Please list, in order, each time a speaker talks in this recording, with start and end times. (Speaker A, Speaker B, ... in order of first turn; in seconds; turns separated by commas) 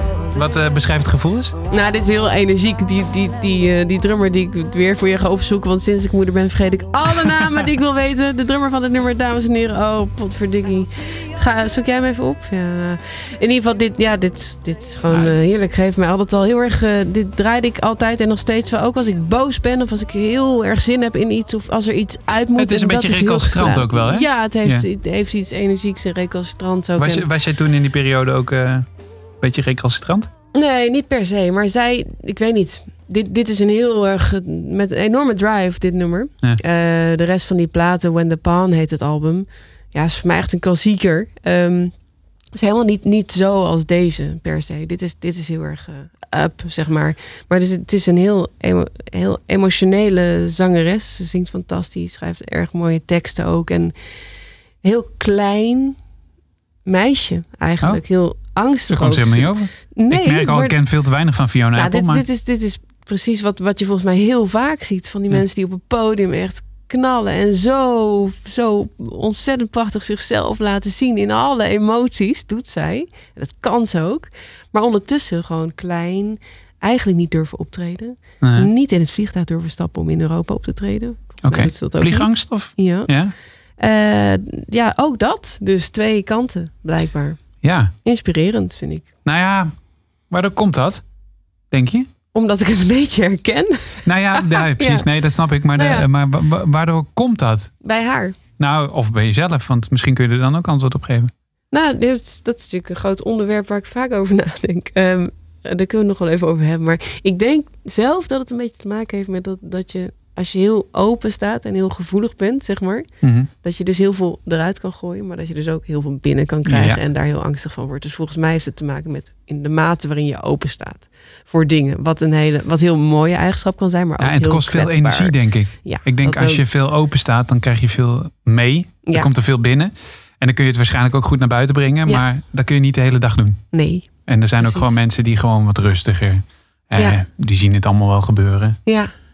Speaker A: 0.3-1.6, Speaker B: 1.7-27.3, Speaker A: 15.1-15.4, Speaker A: 22.6-24.9, Speaker A: 27.0-28.9, Speaker A: 29.4-30.3, Speaker B: 30.5-42.0, Speaker B: 42.5-54.0, Speaker B: 54.8-56.0, Speaker B: 56.9-60.8, Speaker A: 58.9-62.2, Speaker B: 61.8-83.2, Speaker A: 78.4-78.7, Speaker A: 81.4-83.3, Speaker B: 83.8-89.1, Speaker A: 87.6-87.9, Speaker A: 89.2-91.0, Speaker A: 91.7-92.1, Speaker B: 92.3-95.1, Speaker A: 94.0-97.7, Speaker B: 95.8-96.1, Speaker B: 97.8-98.4, Speaker A: 98.6-101.3, Speaker B: 101.7-126.6, Speaker A: 113.2-113.5, Speaker A: 116.7-117.0, Speaker A: 124.2-138.8, Speaker B: 133.7-135.0